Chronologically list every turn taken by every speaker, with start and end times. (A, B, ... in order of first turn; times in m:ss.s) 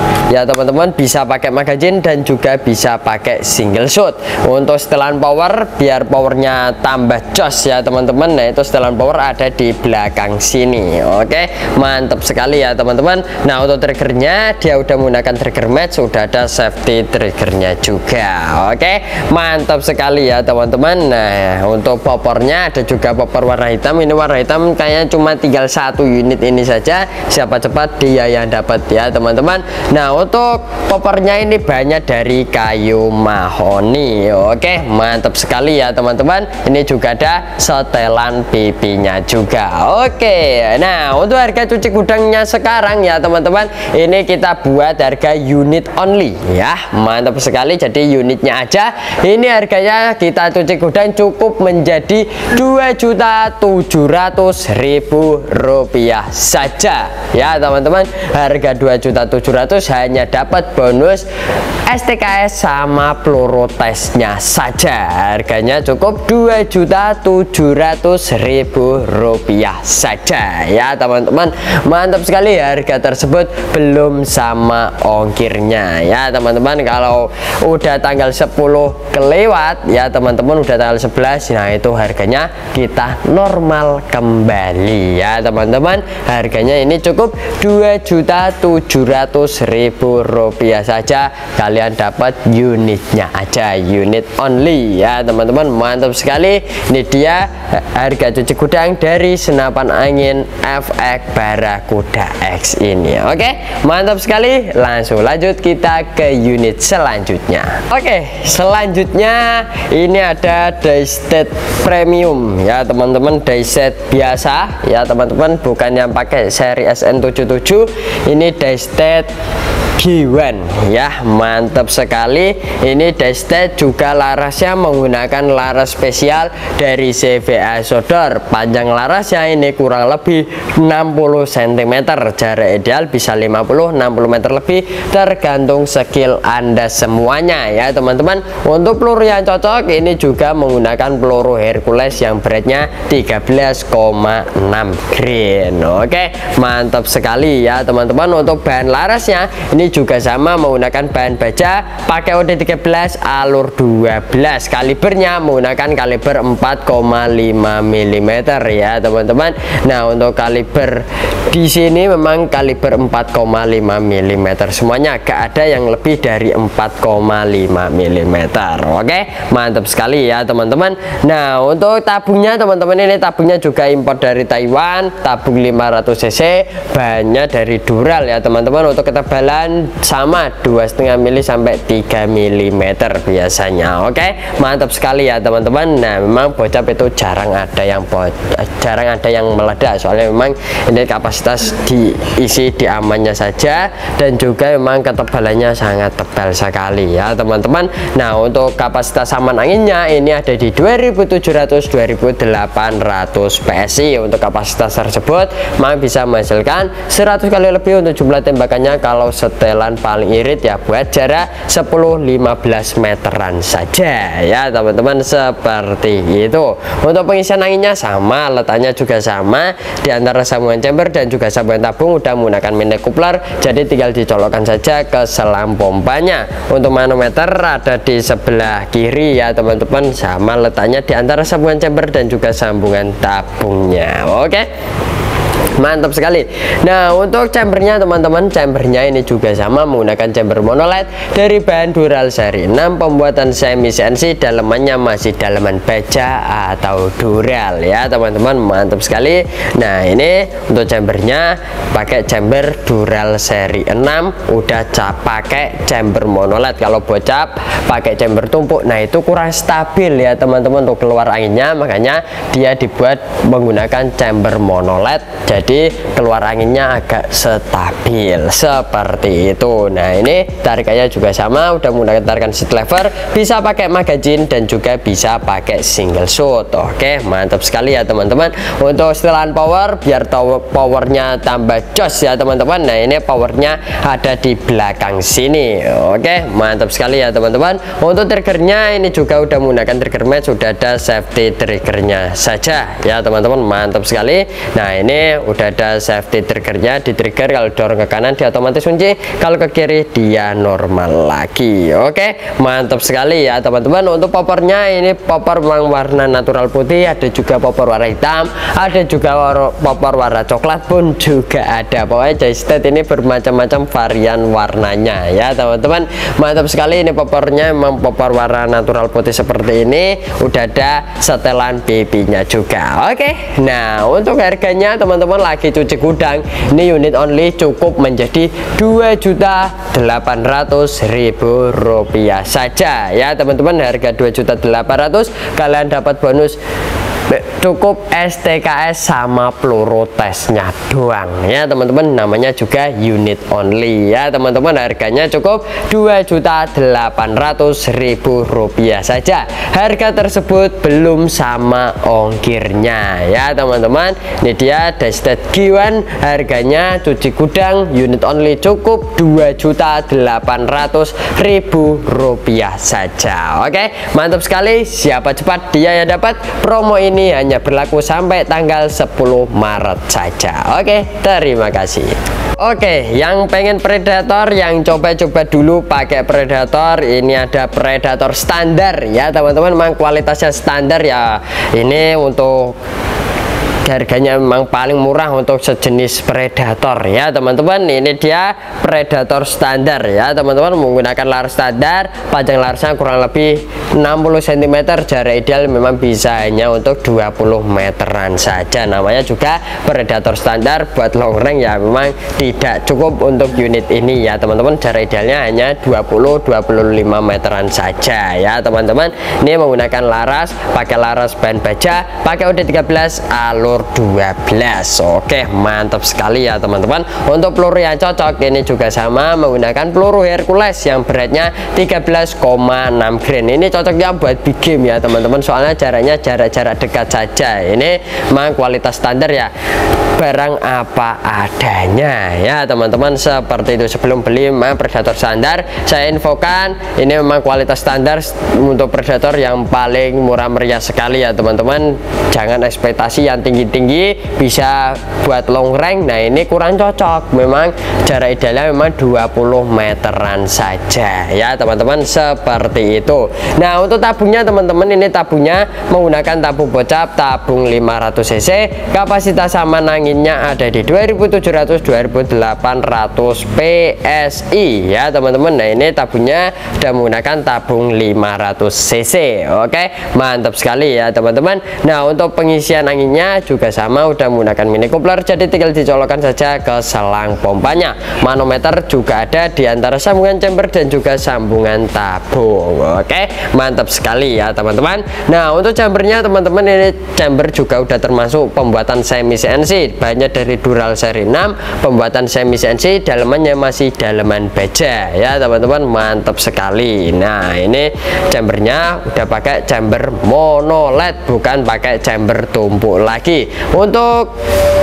0:00.3-1:01.2 A
1:01.9-1:59.3 A
2:00.0-3:54.7 A
3:55.8-5:36.6 A
5:37.3-6:22.8 A
6:23.8-7:09.5 A
7:10.2-8:24.3 A